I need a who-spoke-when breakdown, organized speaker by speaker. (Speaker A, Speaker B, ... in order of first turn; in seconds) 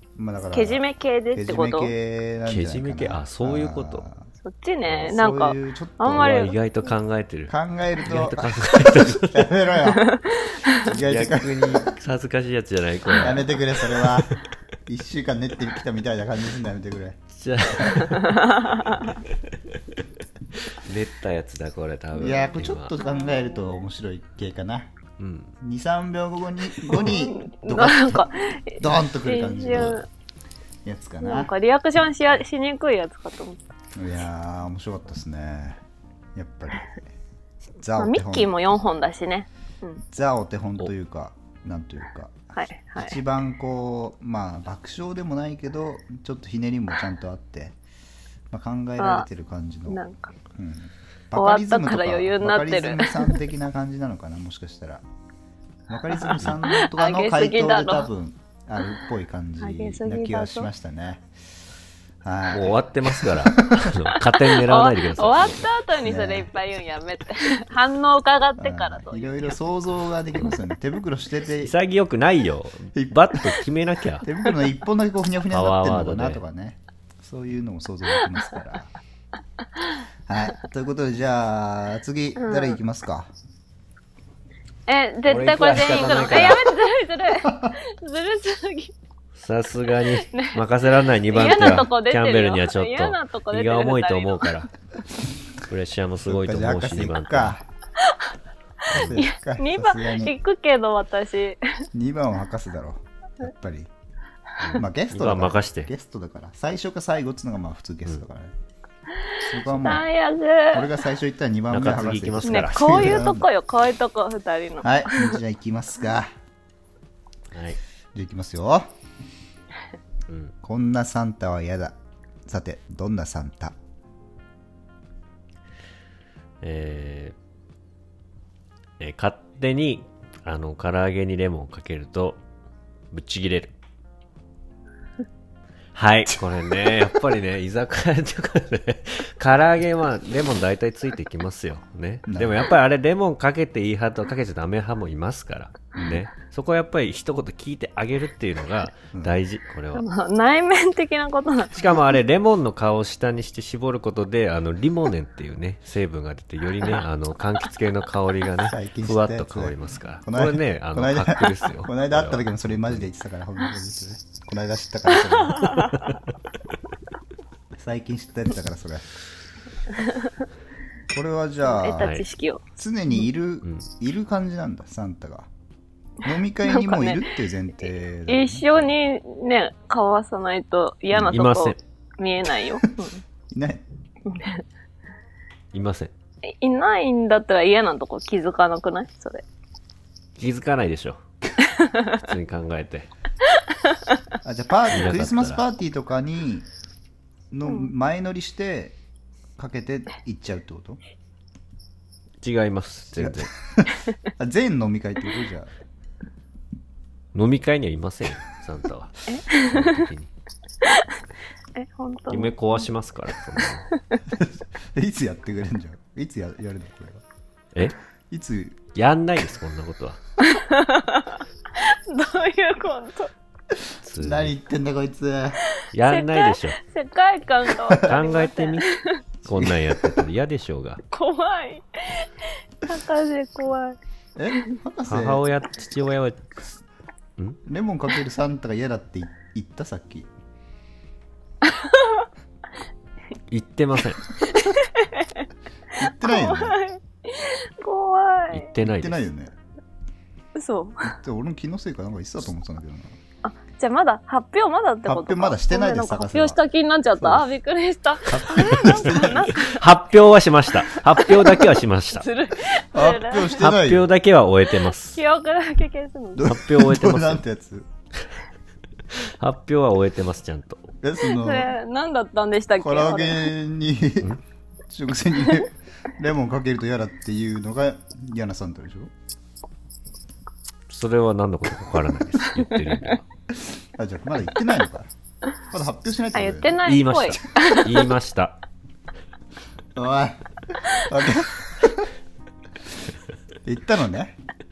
Speaker A: 0.2-0.8, 1.3-4.3, 4.9-6.3, 7.5-10.1, 10.8-11.9, 13.2-17.2, 22.1-24.9, 25.6-30.0, 30.8-31.5, 34.0-35.8, 36.3-37.0, 37.8-38.5, 40.0-42.4, 43.0-47.8, 48.5-50.0, 50.5-55.0, 55.9-61.3, 62.2-64.0, 66.0-66.5, 68.6-71.7, 72.9-73.6, 74.2-78.9, 80.3-83.3, 96.2-97.6, 98.9-100.3, 101.9-103.9, 104.7-108.5, 109.4-110.1, 110.7-113.5, 114.8-116.3, 118.1-118.9, 120.6-123.8, 142.3-142.7, 145.9-146.2, 158.6-165.9, 167.8-169.1, 171.1-172.2, 172.8-175.5, 176.2-178.9, 183.5-183.8, 194.4-196.7, 197.5-199.0, 199.6-201.0, 203.2-205.7, 214.3-217.2, 218.3-218.8, 223.7-225.6, 229.5-229.9, 234.3-235.4, 237.6-240.3, 246.0-246.8, 248.8-249.5, 251.0-253.2, 255.0-256.6, 258.3-259.5, 262.7-264.1, 266.4-267.9, 271.0-271.7, 272.8-274.3, 274.9-279.1, 283.5-285.1, 285.7-286.9, 289.9-292.1, 293.6-294.4
Speaker B: 0.5-1.9, 4.4-6.5, 9.8-10.8, 18.1-19.0, 23.0-23.6, 26.9-30.1, 31.2-33.6, 38.0-40.0, 42.5-43.2, 49.0-49.3, 49.9-50.3, 51.4-53.4, 56.3-58.1, 59.6-60.7, 64.5-69.6, 82.4-82.8, 84.9-88.9, 90.1-90.6, 91.3-94.6, 98.0-98.3, 99.0-101.8, 109.1-111.0, 112.4-115.4, 149.9-152.0, 165.5-166.0, 170.0-170.3, 171.6-172.6, 176.6-177.3, 178.3-183.2, 184.2-184.6, 186.4-189.4, 191.8-192.1, 209.3-210.1, 210.8-211.2, 211.7-212.8, 213.9-214.2, 220.4-223.3, 225.7-229.2, 231.1-234.0, 241.8-242.2, 244.4-245.4, 246.0-248.7, 250.5-251.1, 253.4-260.0, 260.9-263.7, 265.1-266.6, 271.2-273.5, 286.3-288.1
Speaker C: 2.5-4.0, 6.1-9.5, 10.9-14.3, 17.3-20.0, 20.5-22.9, 25.2-25.6, 62.5-65.7, 71.6-74.3, 75.5-76.4, 85.2-86.7, 89.3-94.7, 95.6-97.5, 98.9-99.2, 104.6-105.9, 111.7-113.2, 117.5-117.8, 120.3-120.5, 126.6-127.3, 129.0-132.4, 133.1-133.7, 135.9-150.0, 151.7-163.1, 165.8-166.2, 172.0-172.2, 181.2-181.8, 185.7-186.1, 190.4-191.2, 192.1-193.1, 194.9-195.6, 202.4-203.5, 207.3-210.3, 212.3-213.9, 218.9-220.2, 224.0-224.6, 225.9-226.8, 228.0-228.9, 229.4-231.0, 235.1-236.8, 243.5-244.3, 248.5-249.2, 258.4-262.3, 263.6-265.2, 266.4-267.4, 269.1-270.9, 280.9-283.2, 286.8-288.6